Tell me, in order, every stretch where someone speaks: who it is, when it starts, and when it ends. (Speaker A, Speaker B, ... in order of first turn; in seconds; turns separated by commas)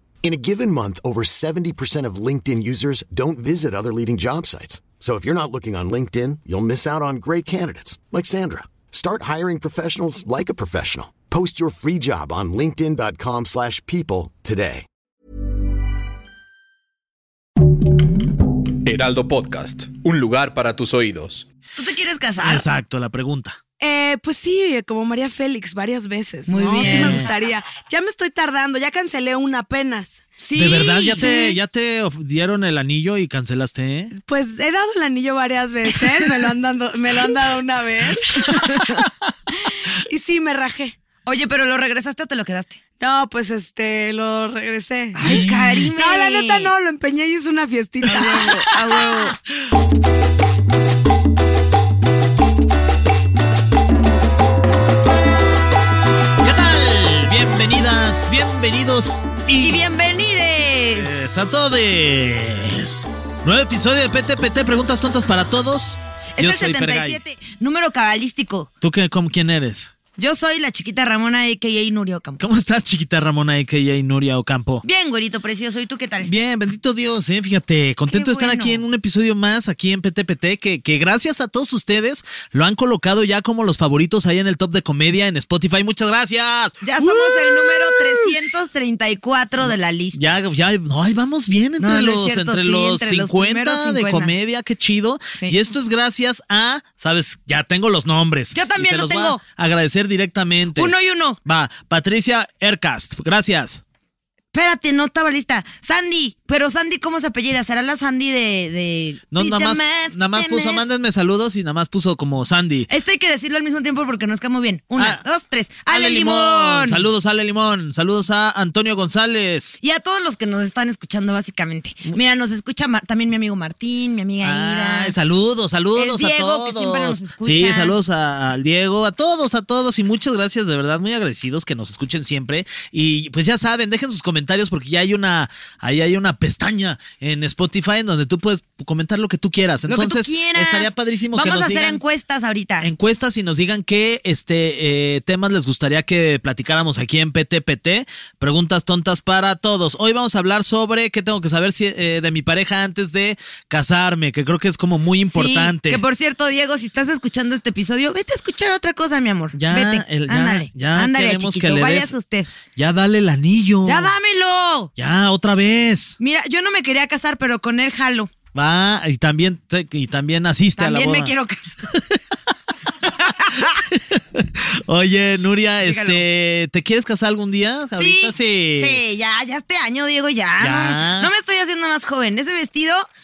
Speaker A: 0.2-14.9, Speaker B: 18.9-21.4, Speaker C: 21.8-22.6, Speaker D: 22.4-23.6, Speaker E: 23.8-30.7, Speaker C: 26.5-27.3, Speaker D: 26.8-27.3, Speaker C: 30.4-31.6, Speaker D: 30.6-34.1, Speaker E: 34.1-38.9, Speaker E: 39.6-41.0, Speaker C: 41.3-42.8, Speaker E: 43.0-49.1, Speaker C: 45.1-46.7, Speaker D: 45.2-45.9, Speaker D: 48.0-48.6, Speaker C: 48.0-49.3, Speaker D: 56.4-59.9, Speaker C: 59.5-61.1, Speaker D: 60.9-67.2, Speaker C: 66.4-68.7, Speaker D: 68.8-69.9, Speaker C: 70.2-72.4, Speaker D: 72.4-74.8, Speaker C: 74.8-76.3, Speaker D: 76.2-88.4, Speaker C: 78.1-78.8, Speaker C: 86.8-90.2, Speaker D: 89.6-100.9, Speaker C: 91.8-94.3, Speaker C: 98.5-99.4, Speaker C: 100.8-101.4, Speaker D: 101.5-103.8, Speaker C: 104.5-110.9, Speaker D: 109.3-112.9, Speaker C: 112.9-117.1, Speaker D: 115.0-115.2, Speaker D: 115.9-119.8, Speaker C: 119.8-125.2, Speaker D: 124.4-142.0, Speaker C: 126.0-128.0, Speaker C: 139.9-142.9, Speaker D: 142.8-156.0, Speaker C: 155.3-162.5, Speaker D: 159.5-162.1, Speaker D: 162.8-164.2, Speaker C: 163.8-164.9, Speaker D: 165.0-166.2, Speaker C: 166.2-168.3, Speaker D: 168.5-171.3, Speaker C: 170.8-171.9, Speaker D: 171.9-172.2, Speaker D: 173.1-179.0, Speaker C: 173.2-173.8, Speaker C: 175.8-176.2, Speaker C: 178.0-183.1, Speaker D: 180.6-181.3